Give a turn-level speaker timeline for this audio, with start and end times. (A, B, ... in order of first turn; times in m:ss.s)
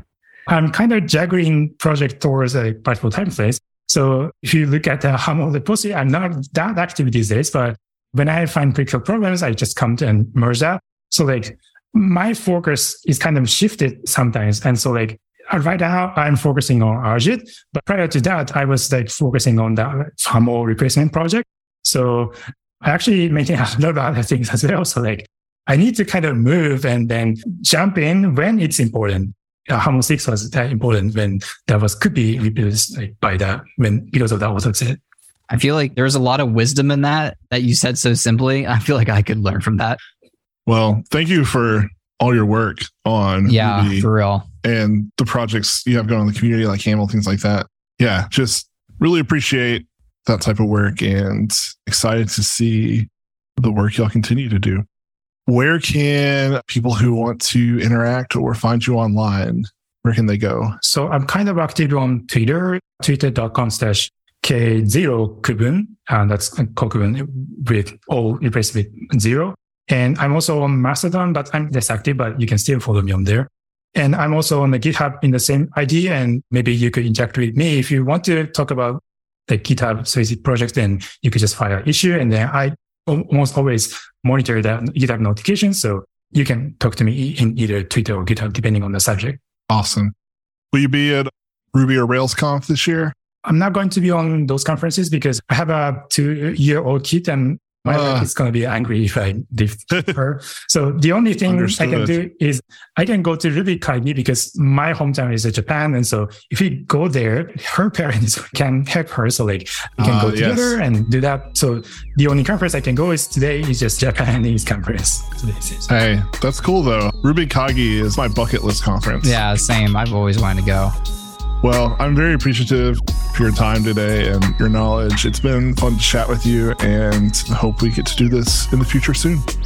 0:00.5-0:35.0 A
0:35.5-0:40.0 B
0:40.7-0:44.1 C
0:43.5-0:44.5 B
0:44.6-0:54.8 C
0:55.5-1:00.8 C
1:00.8-1:29.4 A
1:29.7-1:30.1 C
1:30.7-1:33.2 C
1:33.4-1:55.9 A
1:37.9-1:38.3 C
1:41.5-1:42.2 C
1:50.0-1:50.8 C
1:55.9-1:59.4 C
1:59.2-2:01.0 B
2:01.6-2:09.4 C